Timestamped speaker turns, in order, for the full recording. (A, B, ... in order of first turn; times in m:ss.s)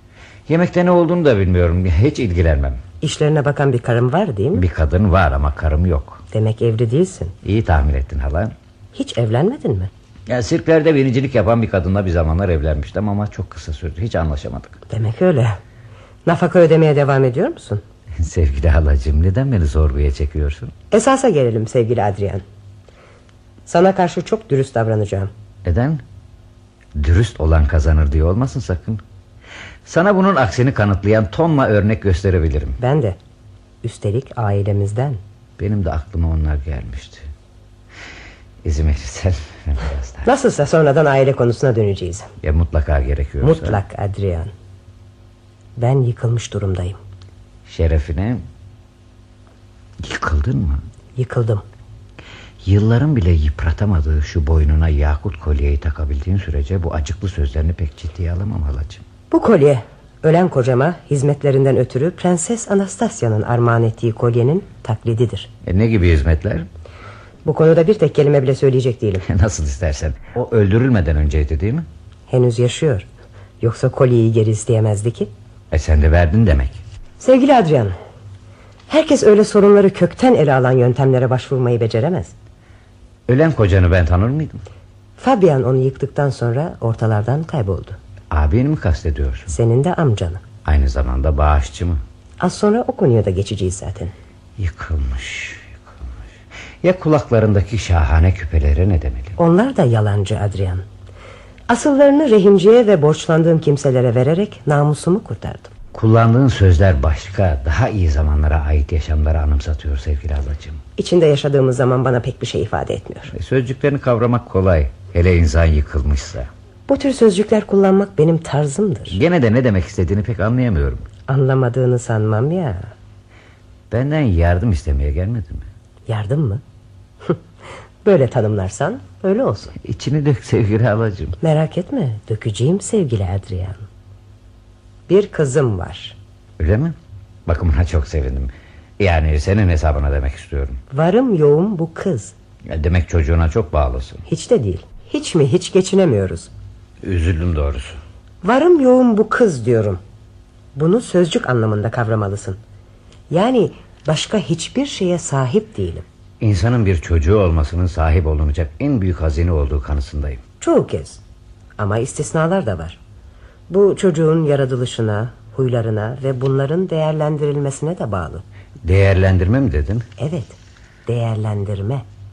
0:00.5-0:02.8 A
0:03.0-0:04.6 B
0:04.5-0:06.2 A
0:06.3-0:07.4 B
0:07.4-0:08.6 A
0:08.9-0:09.9 B
0:10.3-0:14.8 A
0:14.9-0:15.6 B
0:16.2-0:17.8 B
0:18.2-0:20.7 A
0:20.9-0:22.4 B
0:23.7-0:25.3 B
0:25.6-0:26.0 A
0:27.0-0:29.0 A
0:29.8-0:32.8 A
0:32.8-0:33.2 B
0:33.8-0:35.2 B
0:35.6-0:37.3 A
0:38.6-0:40.3 A
0:40.2-0:42.3 B
0:42.4-0:43.8 A
0:43.4-0:44.5 B
0:45.8-0:47.0 B
0:47.7-0:48.5 A
0:50.0-0:50.8 A
0:51.2-0:51.6 B
0:52.6-0:59.0 A
0:59.3-1:05.5 B
1:05.6-1:06.7 A
1:07.4-1:09.3 B
1:09.2-1:11.9 A
1:12.3-1:13.1 B
1:13.6-1:15.3 B
1:15.7-1:16.8 A
1:17.2-1:17.9 B
1:18.9-1:22.3 B
1:23.3-1:24.6 A
1:25.2-1:28.0 B
1:28.3-1:29.5 A
1:29.5-1:30.4 B
1:30.6-1:32.0 A
1:32.4-1:34.1 B
1:34.6-1:36.2 A
1:36.8-1:39.4 A
1:39.4-1:40.8 B
1:41.7-1:45.7 B
1:45.9-1:50.8 A
1:51.0-1:53.3 B
1:53.3-1:56.5 A
1:56.9-1:59.2 B
1:59.1-2:01.1 A
2:01.3-2:02.9 B
2:03.9-2:05.7 A
2:06.1-2:06.6 B
2:08.0-2:09.8 B
2:09.8-2:11.4 A
2:11.4-2:13.8 B
2:15.1-2:16.2 B
2:16.6-2:20.8 A
2:20.9-2:22.3 B
2:22.7-2:24.2 A
2:24.3-2:26.5 B
2:27.0-2:28.0 A
2:28.4-2:30.0 B
2:30.8-2:32.6 B
2:33.3-2:36.0 B
2:36.4-2:40.4 A
2:40.6-2:41.2 B
2:41.8-2:43.0 B
2:43.7-2:48.4 B
2:48.8-2:50.1 A
2:50.2-2:52.1 B